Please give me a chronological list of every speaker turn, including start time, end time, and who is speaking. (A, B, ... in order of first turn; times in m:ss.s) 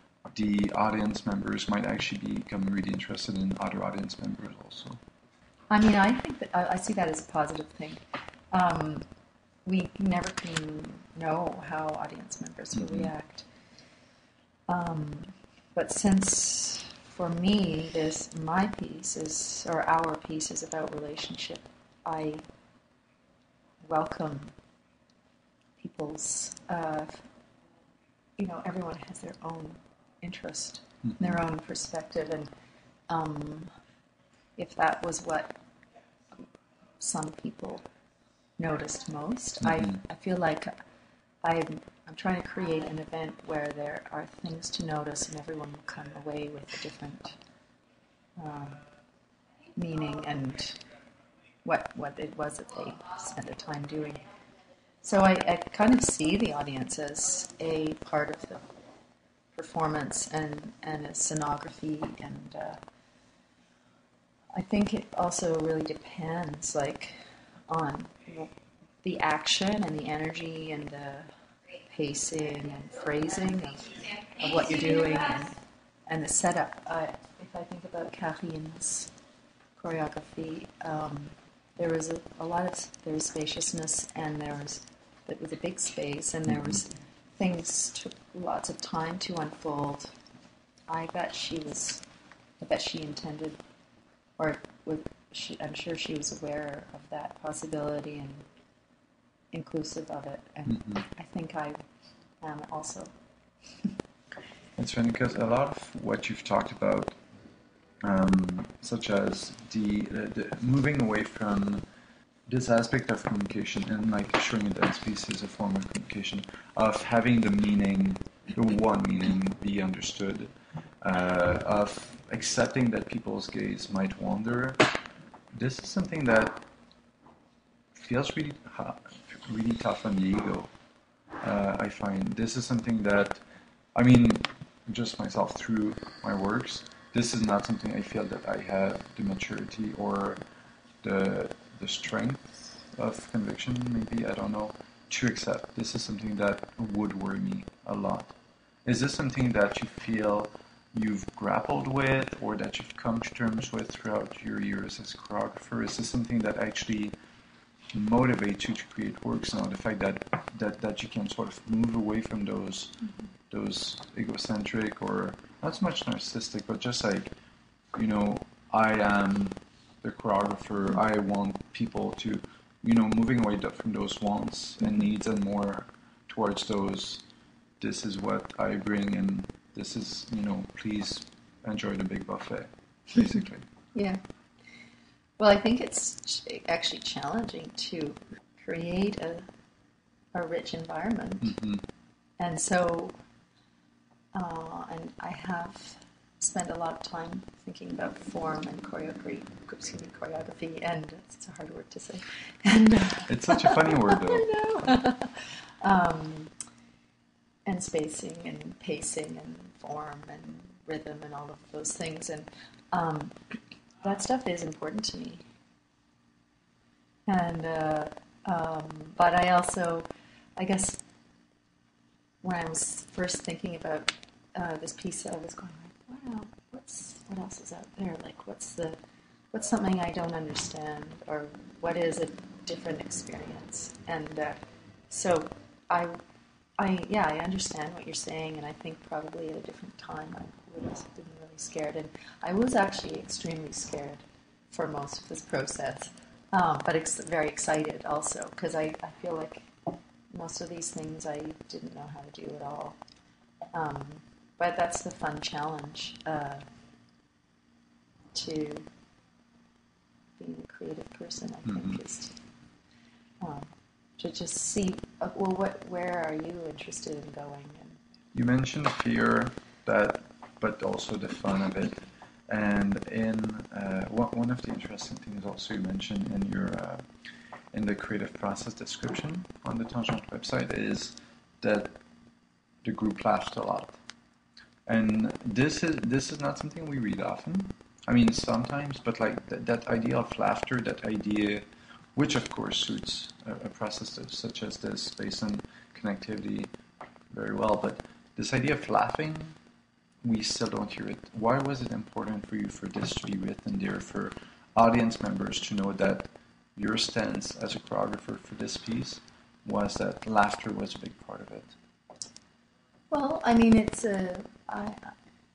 0:00.3-0:05.0 A
0:05.7-0:09.0 B
0:09.6-0:13.5 B
0:12.7-0:13.1 A
0:14.7-0:22.4 B
0:23.8-0:24.5 B
0:25.8-0:27.2 B
0:28.4-0:32.5 B
0:33.1-0:33.7 B
0:34.6-0:35.6 B
0:37.0-0:37.8 B
0:38.6-0:40.7 B
0:39.6-0:39.9 A
0:41.4-0:47.4 B
0:48.4-0:48.8 B
0:49.7-0:50.8 B
0:51.6-0:54.2 B
0:55.0-0:58.6 B
0:59.5-1:02.8 B
1:04.5-1:08.5 B
1:09.0-1:11.3 B
1:11.8-1:15.6 B
1:16.1-1:19.1 B
1:19.8-1:30.1 B
1:30.9-1:32.0 B
1:32.6-1:33.6 B
1:34.4-1:38.4 B
1:39.5-1:41.8 B
1:40.7-1:41.0 A
1:42.4-1:43.1 B
1:44.8-1:47.1 A
1:48.0-1:51.8 A
1:52.5-2:04.9 A
2:05.5-2:06.6 A
2:07.9-2:10.7 A
2:11.4-2:13.4 A
2:13.9-2:20.4 A
2:21.0-2:28.3 A
2:28.8-2:37.1 A
2:37.9-2:43.0 A
2:43.5-2:47.3 A
2:47.9-2:57.2 A
2:57.8-3:03.6 A
3:05.4-3:09.4 B
3:10.3-3:11.6 B
3:11.4-3:11.8 A
3:12.4-3:13.1 B
3:14.3-3:26.5 B
3:23.3-3:24.5 A
3:27.6-3:35.4 B
3:37.3-3:41.0 B
3:42.4-3:49.0 B
3:49.5-3:54.6 B
3:55.1-3:56.2 B
3:56.8-4:09.7 B
4:10.3-4:13.0 B
4:13.7-4:16.6 B
4:18.3-4:18.9 B
4:20.4-4:22.4 B
4:21.7-4:22.0 A
4:23.4-4:28.0 B
4:28.3-4:37.0 A
4:37.7-4:42.0 A
4:42.8-4:44.0 A
4:44.8-4:56.7 A
4:57.3-4:59.6 A
5:00.2-5:11.7 A
5:13.1-5:15.1 B